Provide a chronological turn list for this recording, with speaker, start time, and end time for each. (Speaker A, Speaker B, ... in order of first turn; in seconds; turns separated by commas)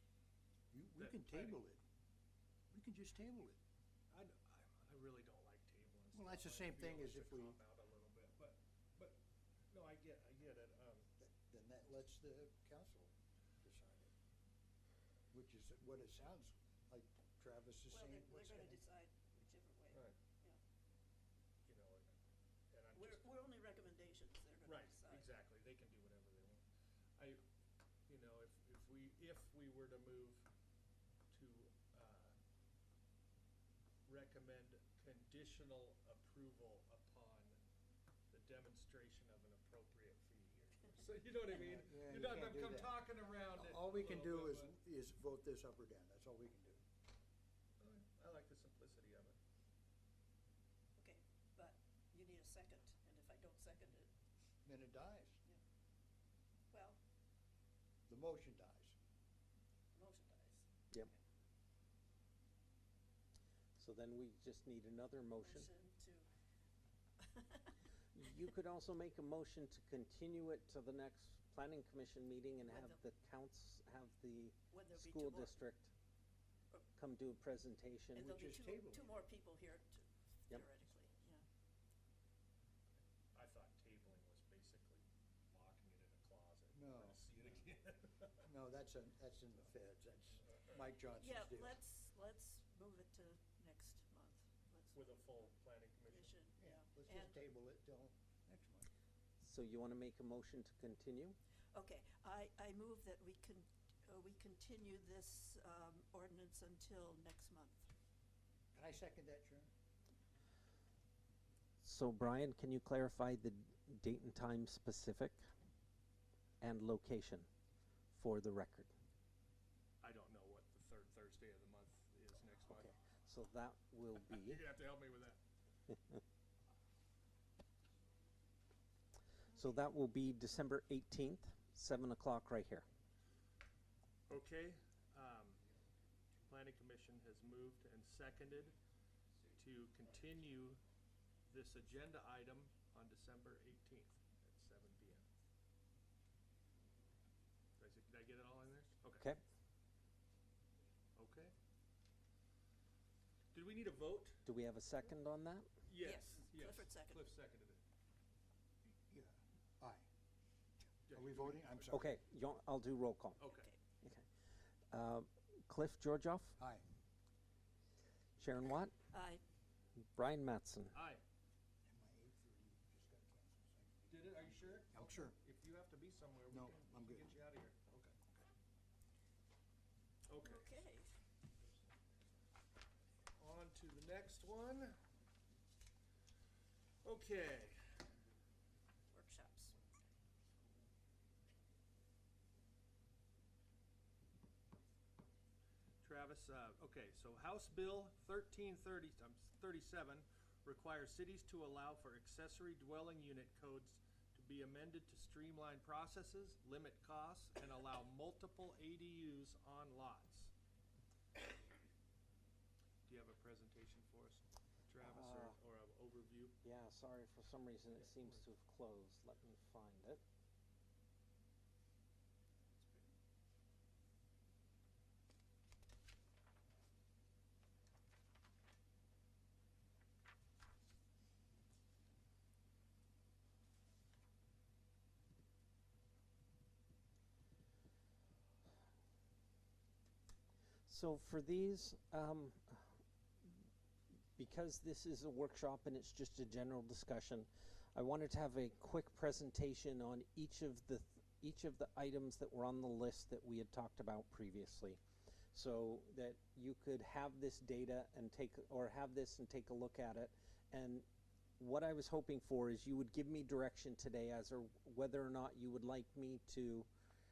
Speaker A: 0.7-1.8, Speaker B: 0.9-1.6, Speaker A: 2.7-3.6, Speaker B: 4.1-9.2, Speaker A: 6.1-7.6, Speaker B: 9.7-11.1, Speaker A: 11.2-14.1, Speaker A: 15.3-18.8, Speaker C: 17.9-20.6, Speaker B: 21.6-22.2, Speaker B: 22.7-23.3, Speaker C: 22.9-25.3, Speaker B: 24.6-26.6, Speaker B: 27.1-27.4, Speaker B: 28.1-30.5, Speaker B: 31.3-32.4, Speaker B: 34.0-37.6, Speaker B: 38.3-44.7, Speaker A: 41.5-46.8, Speaker B: 47.8-49.4, Speaker C: 51.0-54.1, Speaker A: 54.6-55.4, Speaker C: 56.7-57.0, Speaker A: 58.1-58.9, Speaker C: 59.9-60.7, Speaker D: 63.8-65.7, Speaker C: 65.4-66.3, Speaker C: 67.2-67.7, Speaker D: 68.1-75.9, Speaker C: 72.7-73.0, Speaker C: 74.7-75.5, Speaker D: 77.0-78.3, Speaker C: 78.1-81.4, Speaker A: 78.2-79.1, Speaker B: 83.3-88.4, Speaker A: 86.7-87.2, Speaker A: 88.4-91.8, Speaker B: 90.3-90.8, Speaker C: 91.1-95.0, Speaker B: 94.9-96.3, Speaker C: 96.1-97.4, Speaker A: 96.6-98.9, Speaker D: 99.4-101.4, Speaker C: 101.7-107.9, Speaker A: 108.7-109.7, Speaker D: 111.8-115.5, Speaker D: 116.6-117.5, Speaker D: 118.1-118.9, Speaker B: 120.0-122.9, Speaker D: 122.7-124.6, Speaker B: 124.1-125.4, Speaker D: 129.5-132.9, Speaker B: 134.3-135.6, Speaker B: 136.5-138.7, Speaker B: 139.5-140.8, Speaker B: 141.5-145.2, Speaker B: 147.8-149.3, Speaker B: 151.1-151.5, Speaker B: 153.5-154.4, Speaker D: 154.4-155.7, Speaker B: 155.9-157.8, Speaker C: 156.0-157.2, Speaker A: 159.1-160.1, Speaker B: 161.1-161.8, Speaker A: 161.1-162.1, Speaker D: 161.9-163.4, Speaker B: 163.4-163.7, Speaker C: 163.5-163.8, Speaker D: 164.9-166.6, Speaker A: 166.6-166.8, Speaker D: 168.4-168.9, Speaker C: 169.1-169.4, Speaker D: 170.2-171.0, Speaker B: 170.9-171.2, Speaker A: 171.8-175.4, Speaker B: 174.1-178.2, Speaker A: 176.5-177.4, Speaker B: 180.3-180.8, Speaker C: 180.4-181.1, Speaker B: 183.3-185.0, Speaker B: 187.0-187.9, Speaker C: 189.1-189.8, Speaker B: 196.0-210.5, Speaker B: 213.1-216.5, Speaker D: 215.0-215.6, Speaker D: 216.6-220.2, Speaker B: 218.0-218.4, Speaker D: 240.9-243.6, Speaker D: 244.3-255.0, Speaker D: 255.5-261.0, Speaker D: 261.6-266.9